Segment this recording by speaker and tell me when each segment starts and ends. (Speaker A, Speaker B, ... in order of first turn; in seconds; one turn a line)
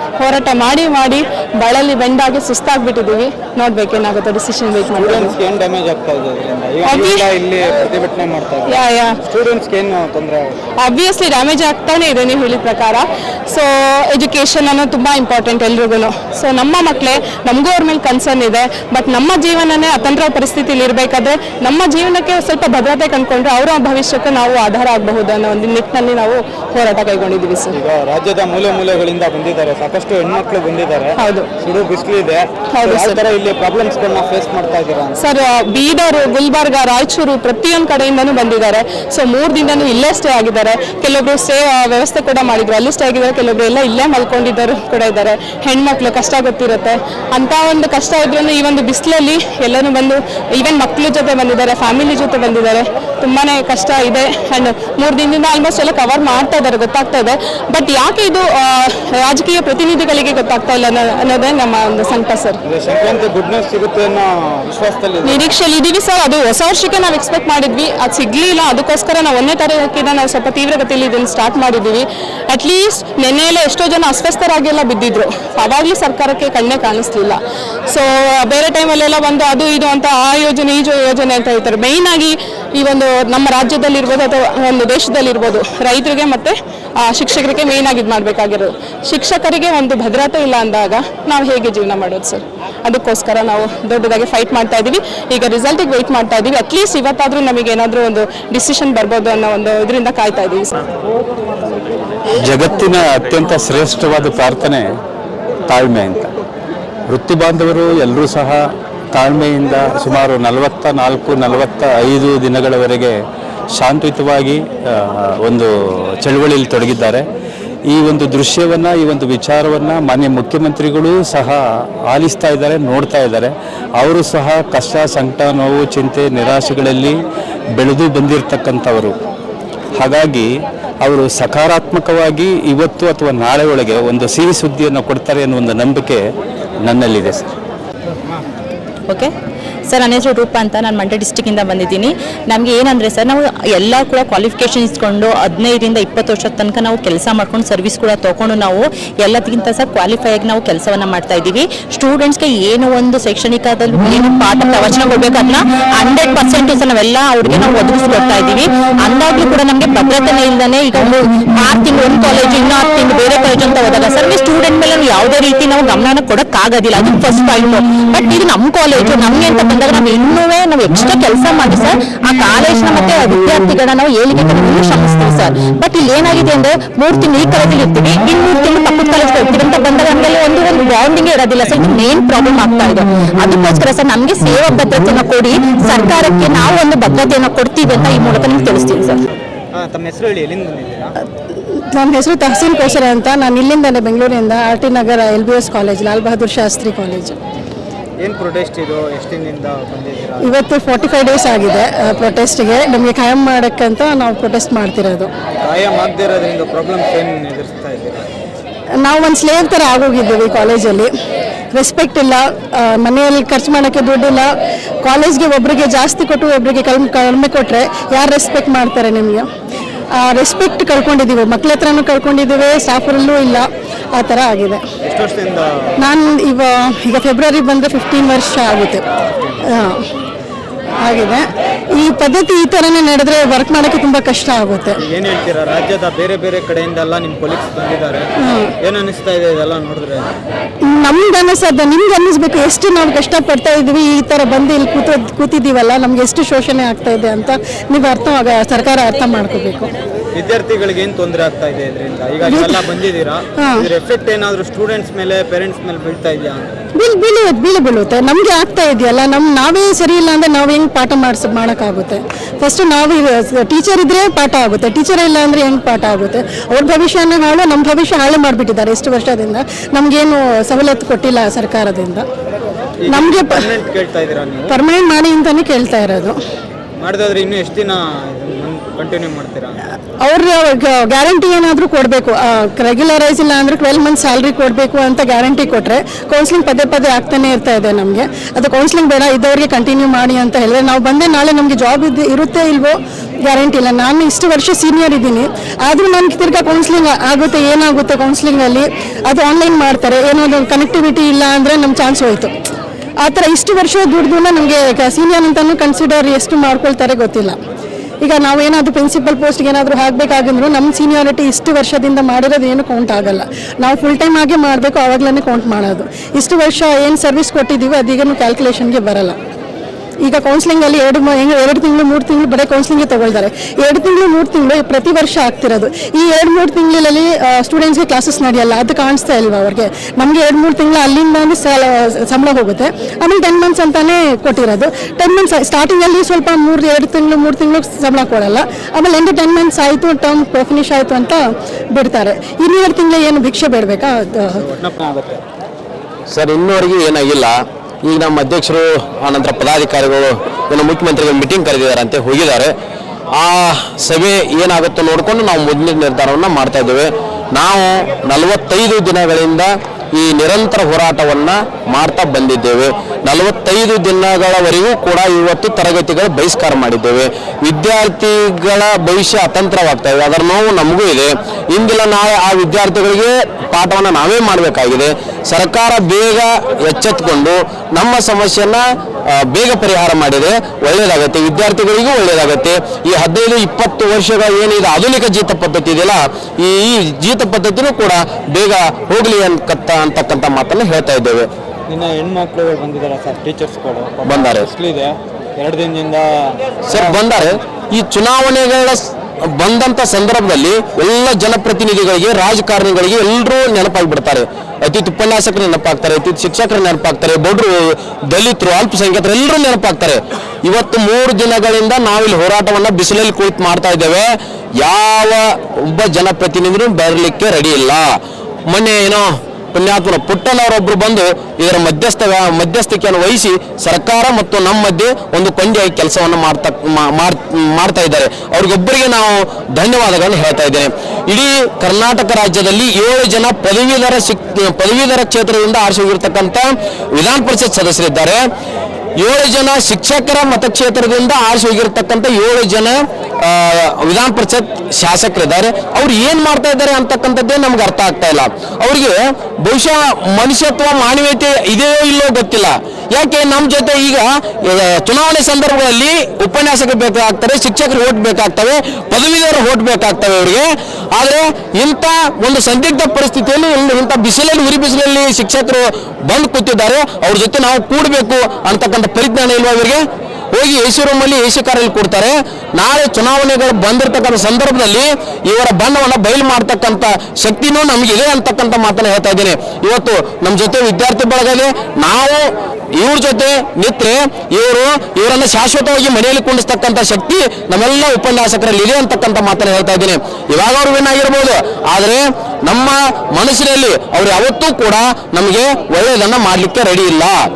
Speaker A: 0.2-5.3
Speaker B: 4.9-10.6
Speaker A: 6.8-7.3
Speaker A: 8.7-9.2
Speaker A: 10.8-27.8
Speaker B: 27.7-35.2
Speaker A: 31.2-31.5
Speaker A: 32.7-33.2
Speaker A: 35.2-62.6
Speaker B: 62.7-65.5
Speaker A: 65.2-77.4
Speaker A: 77.9-100.7
Speaker C: 102.4-104.8
Speaker C: 105.7-106.3
Speaker C: 107.1-108.6
Speaker C: 109.1-113.2
Speaker C: 113.8-115.7
Speaker C: 116.2-117.2
Speaker C: 117.9-127.2
Speaker C: 127.8-129.1
Speaker C: 130.0-130.5
Speaker C: 131.0-136.2
Speaker C: 136.8-137.5
Speaker D: 139.9-189.2
Speaker B: 189.7-191.1
Speaker E: 191.7-197.3
Speaker B: 198.2-200.5
Speaker E: 200.4-205.3
Speaker B: 205.6-208.3
Speaker E: 209.0-211.1
Speaker E: 211.7-214.5
Speaker E: 215.0-219.5
Speaker E: 220.1-224.8
Speaker B: 225.0-225.7
Speaker E: 226.0-229.0
Speaker E: 229.6-230.0
Speaker E: 231.0-231.4
Speaker E: 232.0-235.0
Speaker B: 235.0-238.3
Speaker E: 238.4-238.7
Speaker B: 238.8-240.3
Speaker E: 240.9-249.9
Speaker B: 250.3-256.8
Speaker E: 252.4-252.9
Speaker E: 253.6-253.9
Speaker E: 256.9-272.2
Speaker B: 273.0-274.7
Speaker E: 273.1-273.8
Speaker E: 274.7-276.4
Speaker B: 277.0-279.8
Speaker E: 280.2-302.5
Speaker E: 303.2-307.6
Speaker E: 308.2-319.4
Speaker E: 320.2-344.6
Speaker B: 344.6-345.4
Speaker F: 346.3-352.7
Speaker F: 353.4-391.5
Speaker B: 391.9-397.4
Speaker F: 394.2-394.7
Speaker F: 396.9-418.1
Speaker F: 418.7-438.4
Speaker F: 439.2-497.4